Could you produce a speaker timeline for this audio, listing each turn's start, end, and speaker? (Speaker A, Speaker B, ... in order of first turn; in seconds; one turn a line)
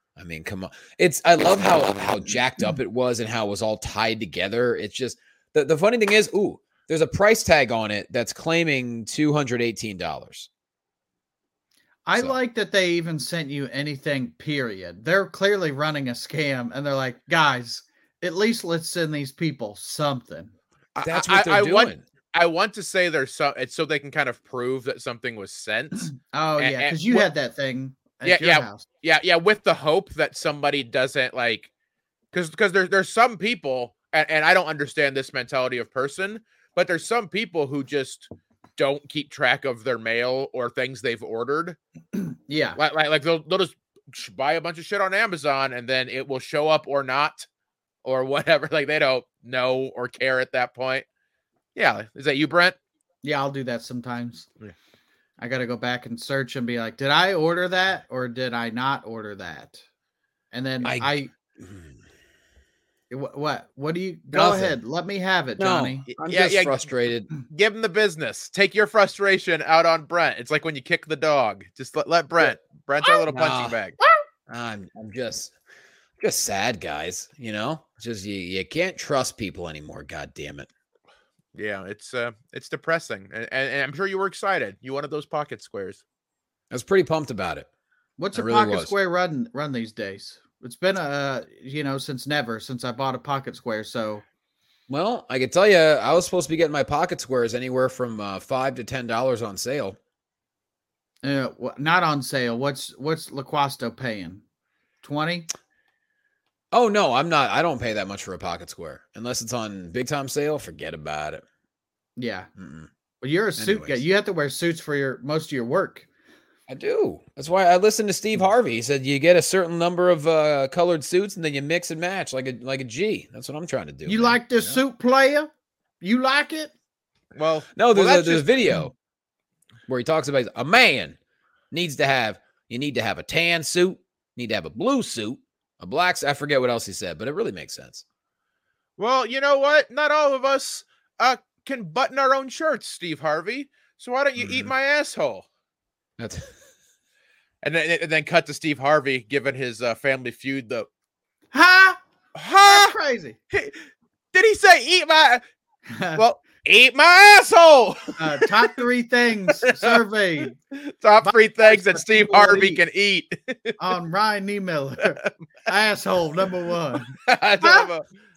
Speaker A: 0.2-10.5
Speaker B: 12.1-20.5
Speaker C: 21.0-27.3
Speaker A: 21.0-22.0
Speaker B: 26.1-28.9
Speaker C: 28.2-31.7
Speaker C: 32.3-41.8
Speaker B: 42.1-42.8
Speaker C: 42.8-47.5
Speaker C: 48.0-51.0
Speaker C: 51.7-52.8
Speaker B: 53.2-54.5
Speaker B: 55.4-59.8
Speaker B: 60.5-61.3
Speaker A: 60.8-62.0
Speaker B: 63.1-66.0
Speaker A: 64.3-64.7
Speaker A: 65.6-67.3
Speaker C: 66.1-66.9
Speaker C: 67.4-74.0
Speaker A: 73.3-73.8
Speaker A: 74.5-75.5
Speaker A: 76.2-80.7
Speaker C: 81.5-86.0
Speaker A: 86.7-87.7
Speaker B: 88.2-94.2
Speaker A: 88.3-88.9
Speaker A: 94.9-100.0
Speaker B: 101.2-104.4
Speaker B: 105.0-105.5
Speaker A: 106.7-111.4
Speaker B: 112.2-112.5
Speaker A: 112.6-112.9
Speaker B: 113.2-116.0
Speaker A: 113.6-114.0
Speaker A: 116.7-124.8
Speaker B: 124.1-125.5
Speaker B: 126.0-126.7
Speaker C: 127.3-128.5
Speaker A: 127.7-128.9
Speaker A: 129.9-131.2
Speaker A: 131.7-138.0
Speaker C: 139.0-145.4
Speaker A: 144.4-144.7
Speaker A: 146.2-146.5
Speaker C: 147.6-150.9
Speaker B: 151.5-152.0
Speaker C: 152.3-152.9
Speaker B: 152.7-153.4
Speaker C: 153.5-155.4
Speaker B: 155.9-156.2
Speaker C: 156.1-158.7
Speaker B: 158.2-160.6
Speaker C: 159.6-160.0
Speaker C: 160.7-163.8
Speaker B: 161.2-162.8
Speaker B: 163.8-167.9
Speaker C: 167.1-168.0